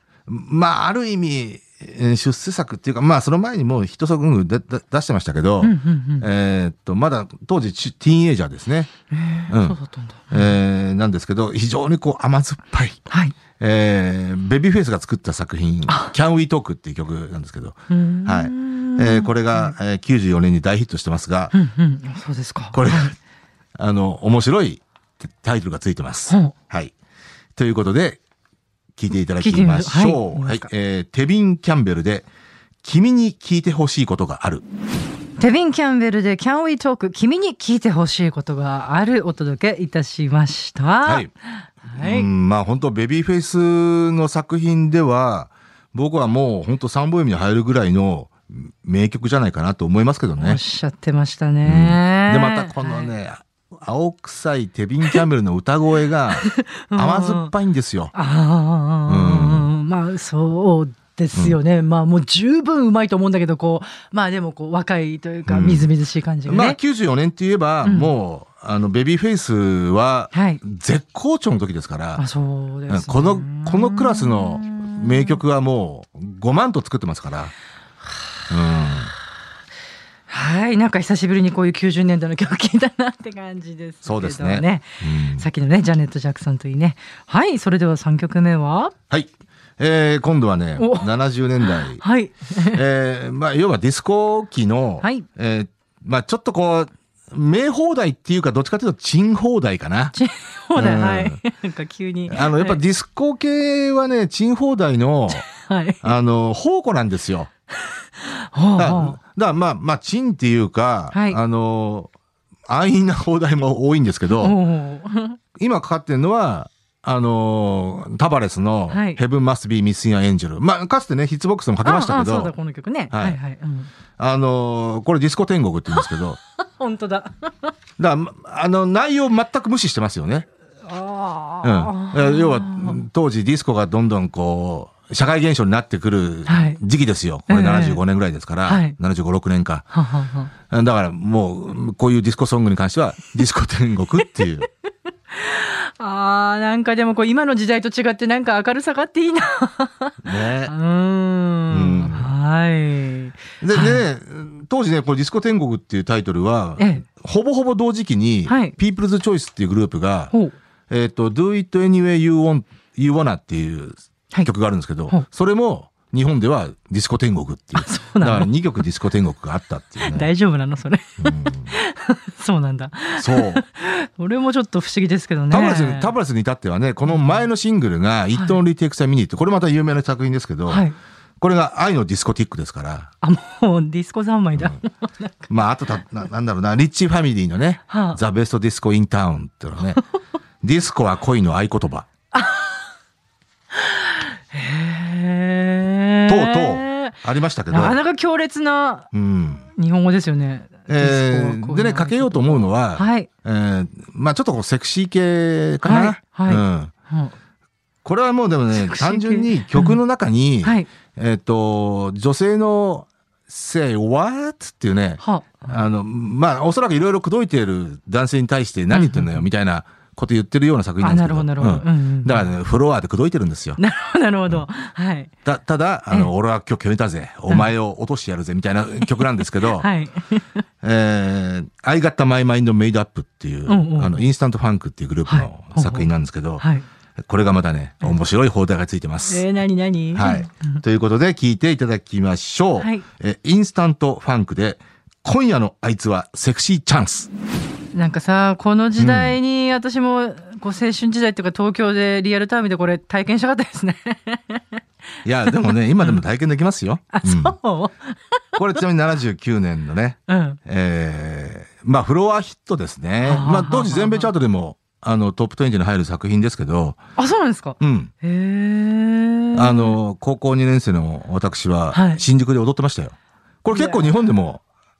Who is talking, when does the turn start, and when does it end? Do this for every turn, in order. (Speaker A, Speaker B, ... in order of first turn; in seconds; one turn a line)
Speaker A: 0.3-8.9
Speaker B: 5.6-6.3
Speaker B: 9.1-10.5
Speaker A: 9.5-9.8
Speaker A: 10.3-13.0
Speaker B: 13.1-13.3
Speaker A: 13.6-21.5
Speaker B: 15.9-16.1
Speaker B: 17.9-19.7
Speaker B: 21.5-23.1
Speaker A: 22.7-23.1
Speaker A: 23.8-26.9
Speaker B: 26.3-26.5
Speaker A: 27.6-28.2
Speaker A: 29.0-32.3
Speaker B: 29.4-30.7
Speaker A: 32.8-34.6
Speaker B: 35.4-42.3
Speaker A: 41.0-41.3
Speaker A: 42.0-50.6
Speaker B: 50.4-53.1
Speaker A: 51.6-58.1
Speaker B: 56.4-57.5
Speaker B: 58.1-66.8
Speaker A: 59.1-59.7
Speaker A: 65.5-65.9
Speaker A: 66.5-72.2
Speaker B: 67.8-68.1
Speaker B: 70.3-70.6
Speaker B: 72.2-75.4
Speaker A: 72.9-77.5
Speaker A: 78.5-79.1
Speaker B: 80.3-88.9
Speaker A: 84.0-85.5
Speaker A: 89.1-92.0
Speaker B: 90.8-91.1
Speaker B: 91.6-92.8
Speaker A: 92.6-100.1
Speaker B: 100.1-102.8
Speaker A: 100.7-101.4
Speaker A: 102.3-105.4
Speaker B: 105.3-106.1
Speaker A: 106.0-107.5
Speaker B: 108.2-109.2
Speaker A: 108.8-112.1
Speaker B: 111.1-111.4
Speaker A: 112.7-114.6
Speaker B: 114.3-115.4
Speaker A: 115.5-122.5
Speaker B: 118.9-119.2
Speaker B: 121.8-123.9
Speaker A: 123.1-123.4
Speaker A: 124.2-126.4
Speaker B: 125.9-127.7
Speaker A: 128.0-130.5
Speaker B: 130.8-133.0
Speaker A: 131.6-139.8
Speaker B: 136.4-136.8
Speaker B: 137.5-138.0
Speaker B: 138.6-138.9
Speaker B: 139.9-140.5
Speaker A: 140.7-144.7
Speaker B: 145.3-154.0
Speaker A: 150.2-150.7
Speaker A: 151.7-152.3
Speaker A: 153.6-160.3
Speaker B: 156.8-157.0
Speaker B: 158.4-158.7
Speaker A: 160.9-170.3
Speaker B: 167.8-168.5
Speaker B: 170.0-176.1
Speaker A: 171.2-171.7
Speaker A: 173.2-173.6
Speaker A: 175.5-180.8
Speaker B: 177.1-177.4
Speaker B: 180.7-180.9
Speaker A: 181.4-183.1
Speaker B: 183.2-185.5
Speaker A: 185.5-190.0
Speaker B: 187.9-188.2
Speaker A: 190.6-192.1
Speaker B: 192.3-192.8
Speaker B: 193.7-199.1
Speaker A: 196.3-198.0
Speaker A: 199.1-199.6
Speaker B: 199.7-203.3
Speaker A: 200.9-206.9
Speaker B: 205.8-207.3
Speaker A: 208.0-223.8
Speaker B: 208.7-210.0
Speaker B: 210.6-210.9
Speaker B: 215.2-215.8
Speaker B: 218.9-219.5
Speaker B: 221.0-222.5
Speaker B: 223.8-225.3
Speaker A: 225.4-229.9
Speaker B: 229.6-230.6
Speaker A: 230.8-236.6
Speaker B: 233.7-234.2
Speaker B: 235.3-236.8
Speaker A: 237.2-239.4
Speaker B: 239.3-240.8
Speaker A: 240.1-247.3
Speaker B: 242.8-243.0
Speaker B: 247.9-254.8
Speaker A: 249.0-249.4
Speaker A: 255.2-257.6
Speaker B: 255.5-256.2
Speaker B: 257.1-258.6
Speaker A: 258.6-267.0
Speaker B: 260.3-260.6
Speaker B: 263.2-264.3
Speaker B: 267.2-270.0
Speaker A: 267.8-268.1
Speaker A: 269.5-274.6
Speaker B: 271.9-272.2
Speaker B: 273.7-274.3